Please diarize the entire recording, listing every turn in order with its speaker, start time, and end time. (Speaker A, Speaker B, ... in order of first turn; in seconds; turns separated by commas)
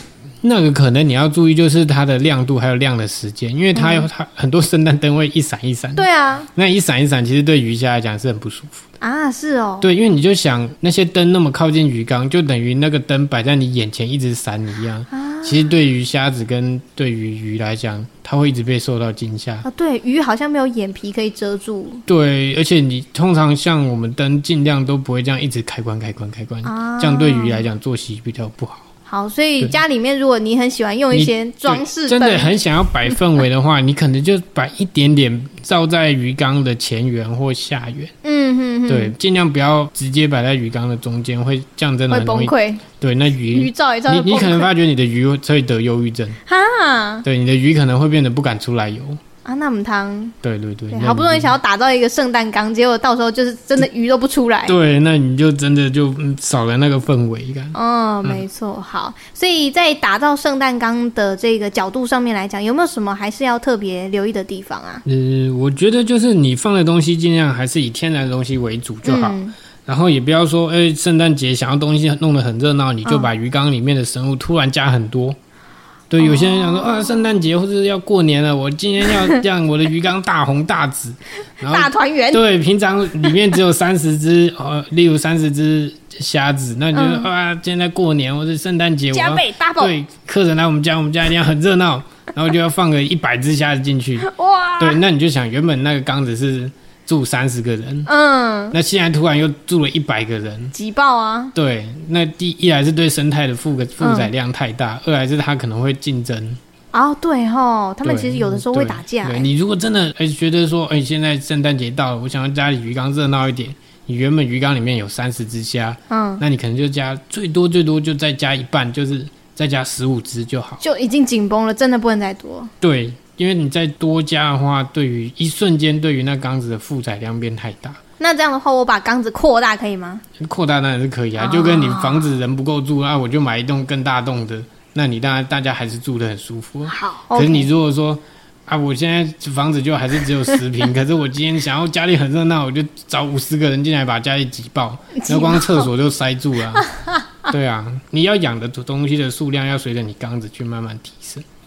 Speaker A: 0.4-8.8, Speaker B: 3.7-4.1, Speaker B: 6.0-6.5, Speaker B: 9.0-9.9, Speaker A: 9.8-19.7, Speaker B: 15.1-15.7, Speaker B: 19.6-22.0, Speaker A: 22.1-28.9, Speaker B: 26.6-27.6, Speaker B: 29.1-32.6, Speaker A: 31.1-38.1, Speaker B: 38.2-39.1, Speaker A: 38.9-46.4, Speaker B: 42.1-42.8, Speaker B: 43.5-44.7, Speaker B: 46.5-47.2, Speaker A: 47.2-49.2, Speaker B: 49.5-50.4, Speaker A: 50.4-51.6, Speaker B: 50.9-54.8, Speaker A: 54.7-58.4, Speaker B: 57.7-65.0, Speaker A: 65.0-75.4, Speaker B: 69.0-69.5, Speaker B: 73.0-73.3, Speaker A: 76.1-94.3, Speaker B: 76.2-77.3, Speaker B: 79.1-79.4, Speaker B: 81.7-82.4, Speaker B: 86.9-87.3, Speaker B: 89.1-90.0, Speaker B: 94.2-95.0, Speaker A: 94.8-98.1, Speaker B: 98.1-98.8, Speaker A: 98.7-100.8, Speaker B: 100.7-101.5, Speaker A: 101.5-106.6, Speaker B: 104.0-104.3, Speaker B: 106.9-109.5, Speaker A: 108.0-120.8, Speaker B: 116.1-116.4, Speaker B: 120.8-122.7, Speaker A: 122.8-128.0, Speaker B: 128.2-130.2, Speaker A: 130.4-146.9, Speaker B: 131.4-132.3, Speaker B: 136.9-137.7, Speaker B: 145.2-145.9, Speaker B: 146.8-147.2, Speaker A: 147.5-151.4